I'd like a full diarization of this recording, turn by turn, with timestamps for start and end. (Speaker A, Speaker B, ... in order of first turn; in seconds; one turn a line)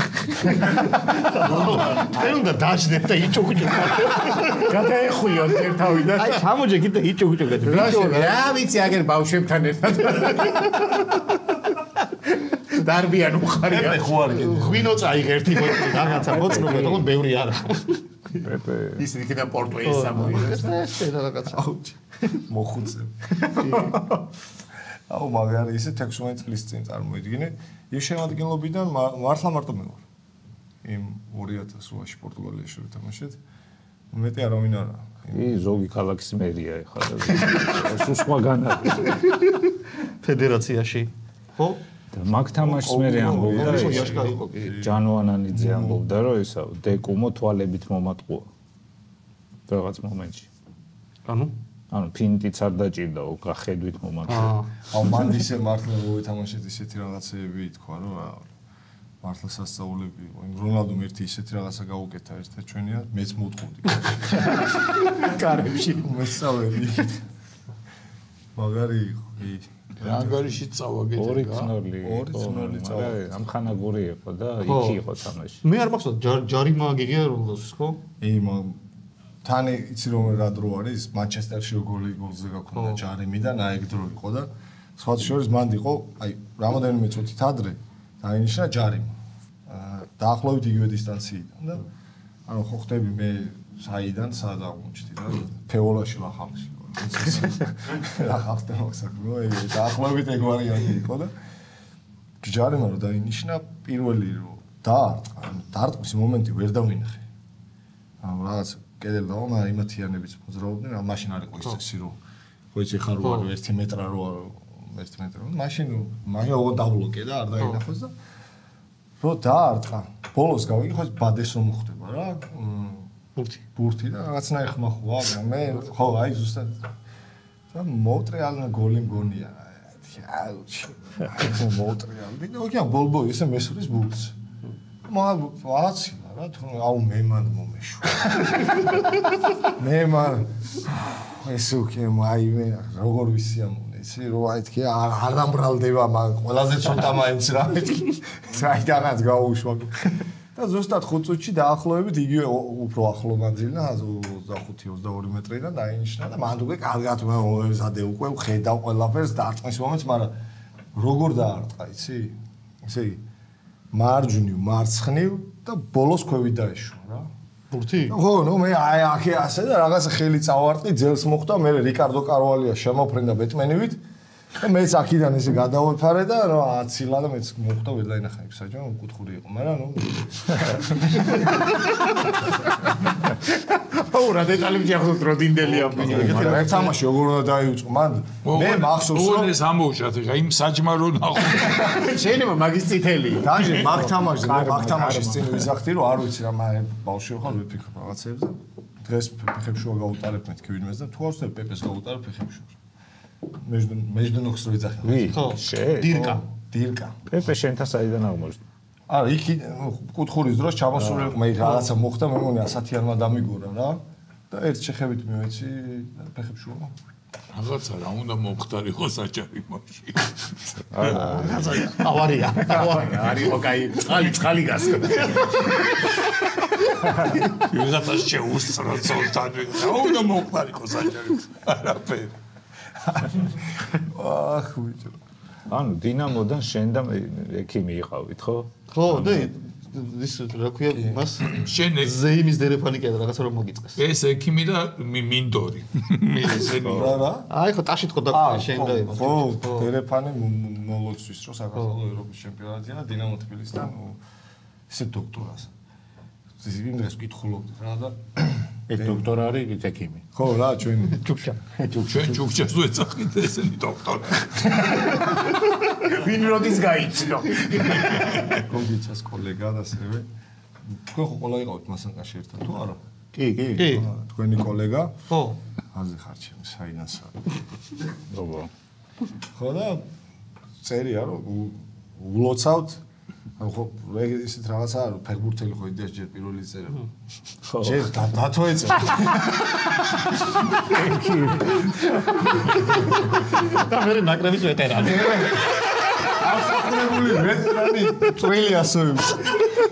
Speaker A: 0.1-4.7
Speaker B: 4.2-6.5
Speaker A: 6.0-8.4
Speaker B: 7.6-11.6
Speaker B: 12.2-14.1
Speaker C: 13.6-15.1
Speaker A: 14.3-18.0
Speaker B: 15.9-17.0
Speaker D: 16.2-17.1
Speaker D: 18.4-19.0
Speaker B: 19.0-20.7
Speaker A: 19.8-21.6
Speaker C: 21.5-24.0
Speaker B: 23.6-24.1
Speaker C: 25.1-30.0
Speaker C: 30.8-33.4
Speaker C: 34.1-35.5
Speaker D: 35.3-39.1
Speaker A: 39.1-39.5
Speaker A: 40.2-41.8
Speaker D: 42.1-48.5
Speaker C: 42.6-45.0
Speaker A: 43.1-44.7
Speaker C: 45.6-46.0
Speaker D: 49.7-50.5
Speaker A: 51.3-51.5
Speaker D: 51.9-54.5
Speaker A: 54.3-54.8
Speaker C: 54.9-58.5
Speaker C: 59.2-64.6
Speaker B: 64.3-66.1
Speaker C: 65.9-67.2
Speaker C: 68.5-70.3
Speaker E: 70.0-71.7
Speaker D: 71.2-75.6
Speaker C: 72.0-73.3
Speaker A: 74.6-75.0
Speaker A: 75.6-78.0
Speaker C: 78.2-78.8
Speaker C: 79.4-89.1
Speaker A: 82.8-83.0
Speaker C: 89.7-91.9
Speaker C: 92.5-101.3
Speaker C: 102.4-107.2
Speaker C: 108.2-112.2
Speaker C: 112.7-118.1
Speaker A: 113.2-113.5
Speaker C: 119.2-123.1
Speaker A: 123.4-123.6
Speaker C: 123.8-126.9
Speaker C: 127.7-134.3
Speaker C: 135.1-139.0
Speaker C: 139.7-140.5
Speaker C: 141.2-160.3
Speaker C: 160.9-163.2
Speaker C: 163.9-167.3
Speaker A: 167.7-168.2
Speaker C: 168.1-174.0
Speaker C: 174.6-181.7
Speaker B: 183.5-186.9
Speaker C: 185.9-189.6
Speaker E: 188.4-192.0
Speaker B: 191.6-195.4
Speaker C: 193.4-202.7
Speaker D: 194.4-195.6
Speaker C: 203.6-205.6
Speaker D: 205.0-206.4
Speaker A: 205.3-206.4
Speaker C: 206.1-207.2
Speaker D: 207.3-208.6
Speaker C: 209.1-216.9
Speaker E: 217.5-221.3
Speaker D: 220.9-221.8
Speaker A: 221.0-223.2
Speaker B: 222.6-225.9
Speaker E: 225.5-225.8
Speaker E: 227.4-232.3
Speaker C: 233.3-235.2
Speaker D: 235.7-239.5
Speaker A: 238.9-244.0
Speaker C: 240.9-241.2
Speaker E: 241.5-242.2
Speaker E: 244.0-247.2
Speaker C: 246.8-247.5
Speaker D: 246.8-247.2
Speaker A: 247.5-249.9
Speaker C: 248.3-254.2
Speaker C: 254.9-255.7
Speaker C: 256.6-259.3
Speaker B: 258.9-260.2
Speaker C: 260.3-261.2
Speaker A: 261.1-261.6
Speaker B: 261.8-262.4
Speaker E: 262.1-264.9
Speaker B: 264.7-268.4
Speaker C: 268.4-270.3
Speaker C: 271.1-273.0
Speaker B: 273.3-274.1
Speaker A: 273.8-274.1
Speaker C: 273.9-275.2
Speaker A: 275.3-275.6
Speaker C: 275.9-277.5
Speaker D: 278.3-278.7
Speaker C: 279.6-280.1
Speaker C: 280.8-283.0
Speaker C: 283.6-287.0
Speaker D: 287.7-288.1
Speaker C: 287.8-290.0
Speaker D: 290.9-291.8
Speaker B: 291.2-291.8
Speaker A: 293.6-295.6
Speaker C: 294.9-299.7